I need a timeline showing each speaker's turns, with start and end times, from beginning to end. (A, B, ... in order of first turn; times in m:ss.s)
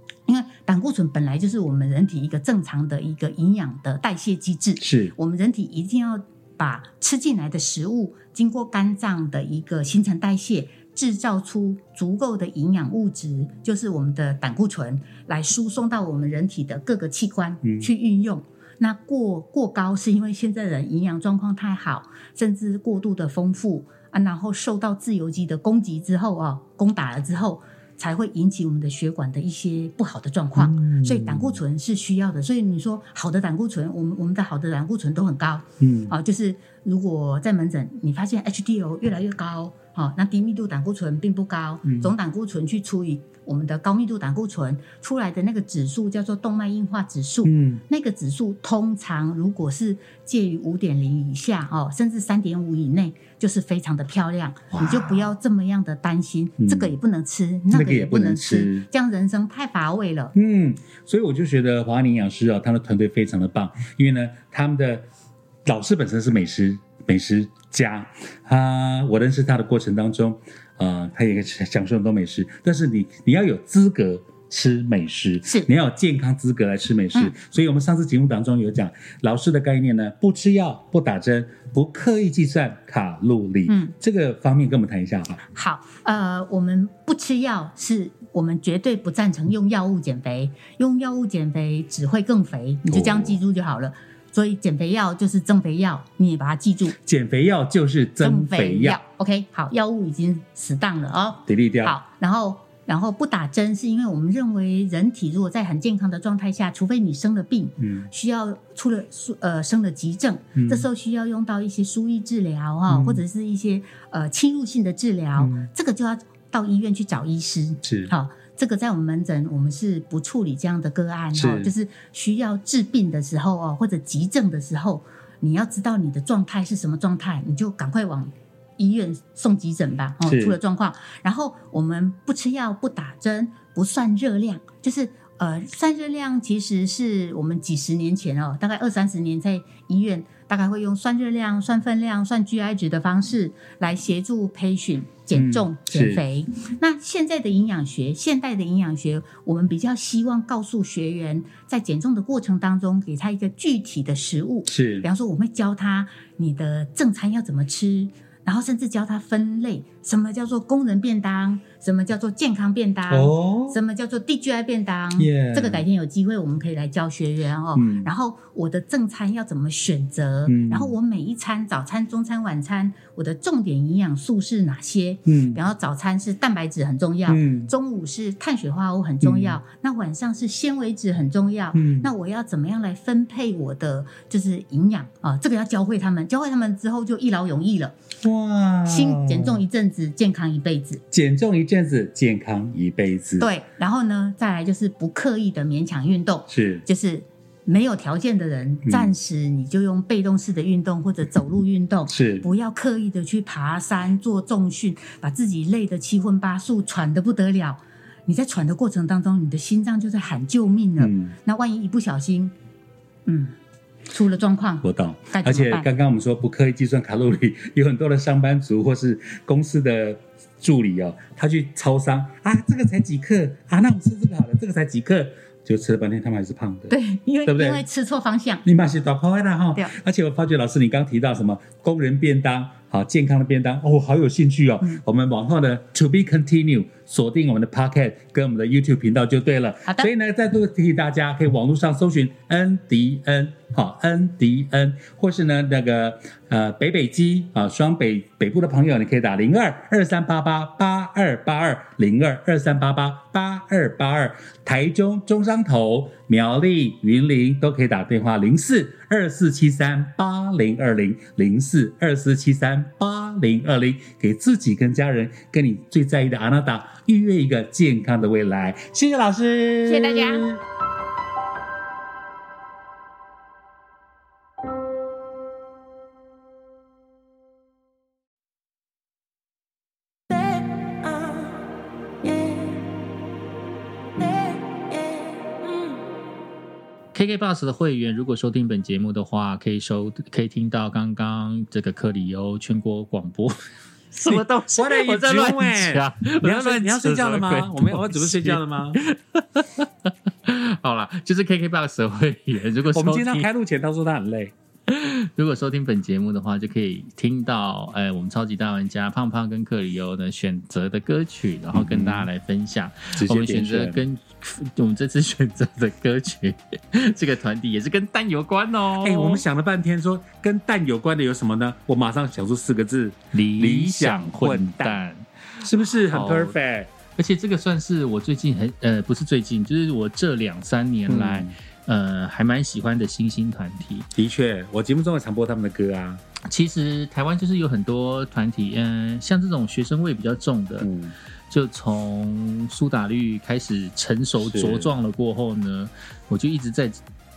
0:00.3-1:00.4 A
0:04.8-0:05.1 B
0:17.6-0:17.9 B
0:30.6-0:31.6 B
0:35.8-0:36.1 B
0:41.8-0:42.1 B
0:47.4-0:47.8 B
0:54.7-0:55.3 B
0:56.6-0:56.9 B
0:57.7-0:58.9 B
1:00.4-1:05.0 B
1:05.6-1:25.4 B
1:23.7-1:24.0 A
1:25.5-1:37.0 A
1:32.8-1:33.4 B
1:37.0-1:39.0 B
1:38.2-3:08.0 A
1:41.5-1:42.0 B
1:47.8-1:48.1 B
1:50.6-1:50.9 B
1:52.9-1:53.2 B
1:55.4-1:55.7 B
1:57.8-1:58.1 B
2:01.3-2:01.7 B
2:10.2-2:10.6 B
2:25.4-2:26.2 B
2:34.7-2:35.1 B
2:43.1-2:43.8 B
2:45.2-2:45.8 B
2:47.8-2:48.1 B
2:50.5-2:50.9 B
2:55.3-2:55.6 B
2:57.3-2:57.7 B
2:59.2-2:59.6 B
3:01.7-3:02.1 B
3:08.2-3:09.6 B
3:08.9-3:11.0 A
3:11.1-3:13.5 B
3:13.4-3:32.5 A
3:16.5-3:16.8 B
3:18.9-3:19.1 B
3:22.1-3:22.5 B
3:31.0-3:31.4 B
3:33.3-3:33.6 A
3:34.1-3:35.9 A
3:34.8-3:47.0 B
3:46.9-3:48.6 A
3:47.5-3:47.8 B
3:48.6-4:30.6 B
4:29.9-4:30.5 A
4:47.1-4:53.6 C
4:54.1-5:03.5 C
4:54.2-4:59.0 B
5:02.9-5:04.5 B
5:04.9-5:19.4 C
5:11.7-5:12.3 B
5:13.1-5:14.0 B
5:19.0-5:25.0 B
5:23.3-5:25.3 C
5:25.6-5:26.9 B
5:26.1-5:26.5 C
5:27.2-5:34.1 C
5:31.1-5:31.5 B
5:34.2-5:36.2 B
5:36.4-5:40.9 C
5:40.8-5:41.2 B
5:41.5-5:47.0 C
5:44.4-5:44.9 B